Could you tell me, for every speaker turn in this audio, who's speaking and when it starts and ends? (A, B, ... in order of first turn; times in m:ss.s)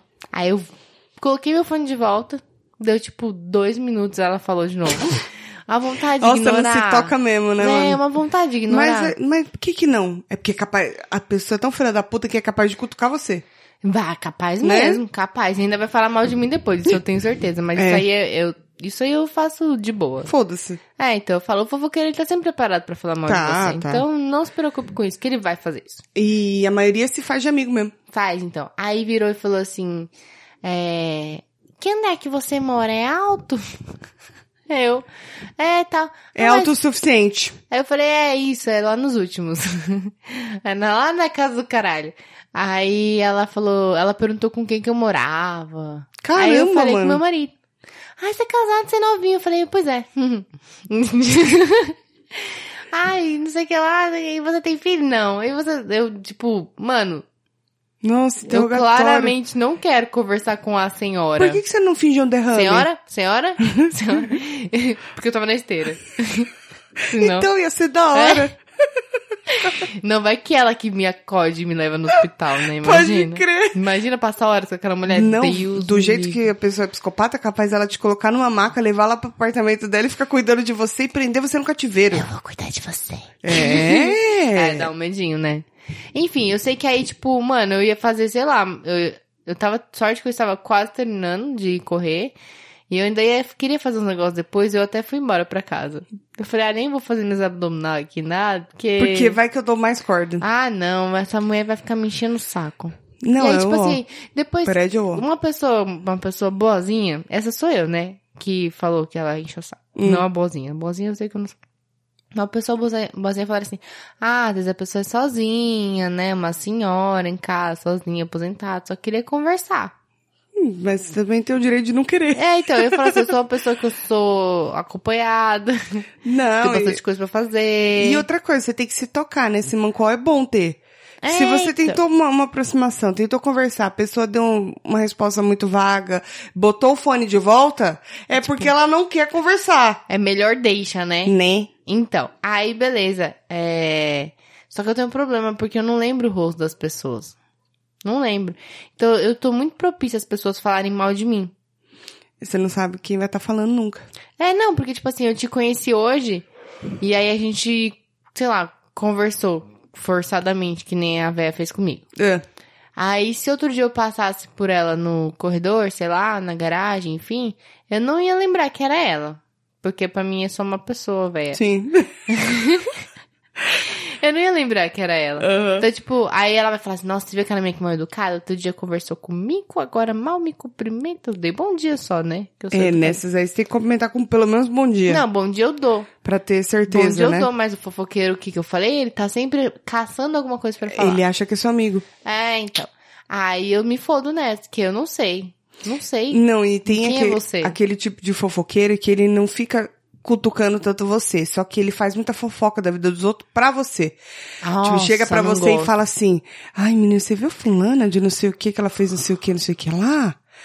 0:00.3-0:09.1 A
0:06.2-0:08.0 B
0:08.7-0:13.4 B
0:13.8-0:20.3 A
0:14.6-0:15.0 B
0:17.8-0:18.0 B
0:20.2-0:20.8 B
0:21.0-0:26.0 A
0:23.2-0:24.0 B
0:26.1-0:27.9 B
0:28.1-0:30.1 A
0:30.6-0:33.6 A
0:34.7-0:35.0 A
0:35.6-0:36.7 A
0:36.3-0:37.6 B
0:37.7-0:47.5 A
0:46.2-0:47.2 B
0:48.2-0:57.2 A
0:58.0-0:59.3 B
0:58.5-1:01.6 A
1:01.4-1:02.9 B
1:02.5-1:06.5 A
1:07.1-1:07.5 A
1:07.1-1:08.6 B
1:08.1-1:08.5 A
1:09.5-1:16.4 A
1:12.8-1:13.8 B
1:15.1-1:22.2 B
1:22.1-1:32.3 A
1:23.4-1:24.9 B
1:32.9-1:39.4 A
1:39.0-1:40.4 B
1:40.4-1:51.6 A
1:43.2-1:44.0 B
1:44.6-1:45.2 B
1:50.0-1:50.2 B
1:52.3-1:59.9 A
2:00.6-2:03.3 B
2:02.3-2:06.0 A
2:06.2-2:07.0 B
2:06.6-2:08.2 A
2:08.0-2:20.0 B
2:11.2-2:12.0 A
2:18.4-2:18.7 A
2:20.1-2:21.3 A
2:21.2-2:21.7 B
2:21.8-2:27.4 A
2:28.0-2:31.5 A
2:32.4-2:34.0 B
2:34.4-2:36.4 A
2:37.0-2:42.0 A
2:42.2-2:42.4 B
2:43.0-2:51.6 A
2:51.5-2:52.1 B
2:52.3-2:53.0 A
2:53.8-3:03.2 A
2:55.4-2:55.9 B
3:02.7-3:05.2 B
3:05.1-3:06.1 A
3:06.2-3:07.5 B
3:06.9-3:11.2 A
3:10.9-3:12.0 B
3:12.2-3:17.8 A
3:16.3-3:24.2 B
3:24.6-3:25.9 A
3:24.8-3:30.4 B